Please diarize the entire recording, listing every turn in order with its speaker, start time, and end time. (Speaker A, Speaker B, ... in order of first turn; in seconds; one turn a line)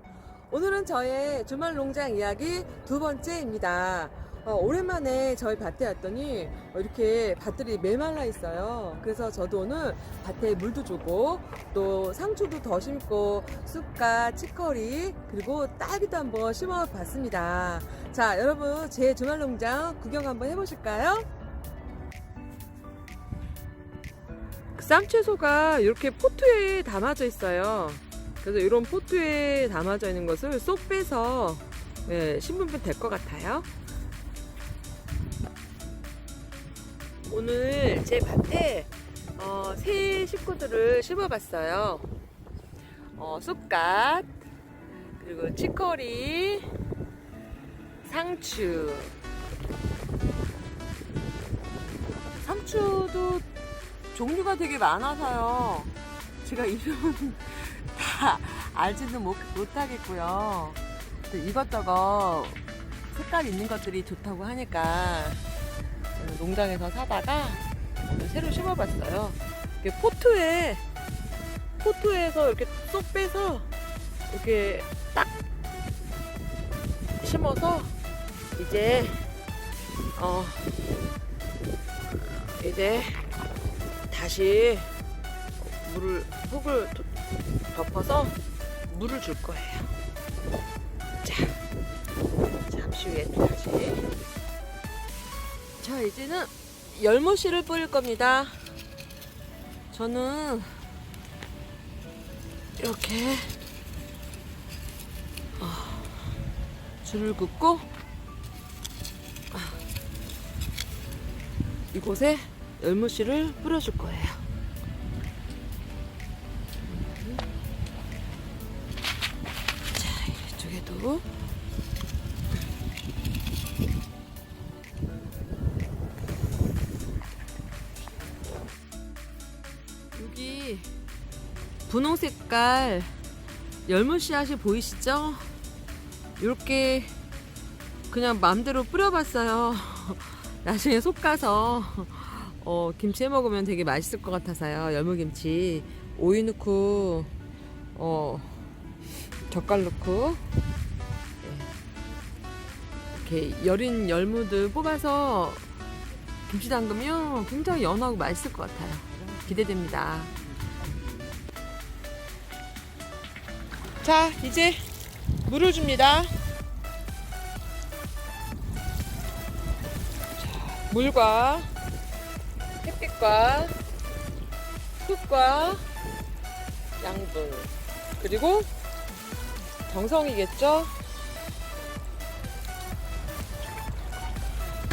Speaker A: 0.5-21.3
Speaker A: 24.8-33.7
Speaker A: 37.3-42.1
Speaker A: 43.2-44.3
Speaker A: 45.2-46.7
Speaker A: 48.0-49.1
Speaker A: 52.4-53.5
Speaker A: 54.1-62.6
Speaker A: 63.1-65.4
Speaker A: 66.2-70.8
Speaker A: 71.8-73.7
Speaker A: 74.3-75.3
Speaker A: 77.2-77.9
Speaker A: 78.6-79.3
Speaker A: 80.2-80.7
Speaker A: 82.2-83.2
Speaker A: 84.1-84.9
Speaker A: 85.6-87.1
Speaker A: 87.7-88.4
Speaker A: 88.9-89.9
Speaker A: 91.2-91.6
Speaker A: 92.7-94.1
Speaker A: 95.8-98.7
Speaker A: 99.9-100.7
Speaker A: 102.8-103.5
Speaker A: 105.6-106.2
Speaker A: 107.0-107.9
Speaker A: 109.5-109.8
Speaker A: 111.9-114.4
Speaker A: 116.8-117.4
Speaker A: 119.9-121.3
Speaker A: 130.1-130.9
Speaker A: 131.9-133.1
Speaker A: 133.9-135.4
Speaker A: 136.4-137.1
Speaker A: 138.1-147.3
Speaker A: 147.9-148.6
Speaker A: 149.5-150.4
Speaker A: 151.4-151.7
Speaker A: 153.1-155.6
Speaker A: 156.5-160.3
Speaker A: 164.0-164.9
Speaker A: 165.4-166.3
Speaker A: 170.3-171.7
Speaker A: 172.8-173.8
Speaker A: 175.0-175.8
Speaker A: 177.0-178.7
Speaker A: 179.9-180.9